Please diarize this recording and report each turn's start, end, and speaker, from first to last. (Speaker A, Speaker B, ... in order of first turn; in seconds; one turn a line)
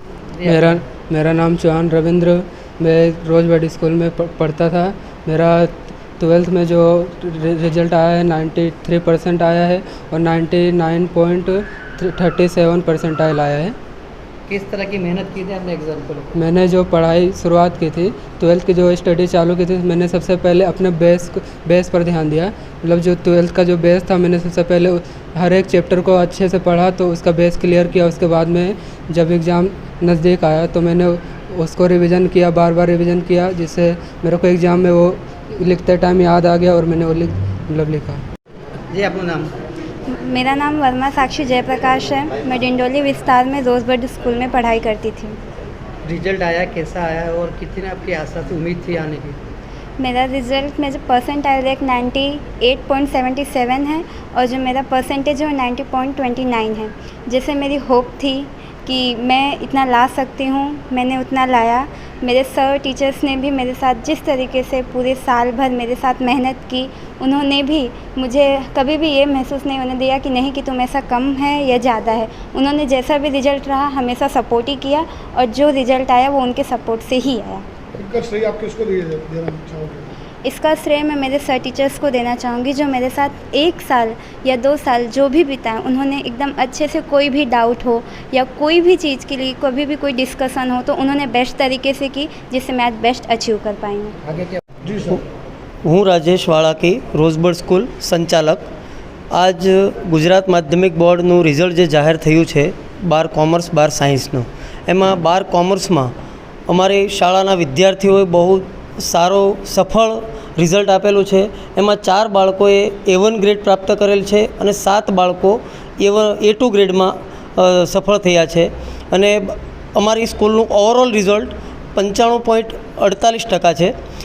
Speaker A: 0.3-0.8
Speaker B: 0.5-13.8
Speaker A: 14.5-16.3
Speaker B: 16.4-38.2
Speaker A: 38.9-39.5
Speaker C: 40.2-45.4
Speaker A: 46.1-49.4
Speaker C: 50.0-77.7
Speaker D: 78.0-80.1
Speaker C: 80.5-94.1
Speaker A: 94.3-94.6
Speaker D: 94.9-95.1
Speaker E: 95.9-98.7
Speaker E: 99.3-106.1
Speaker E: 106.7-123.9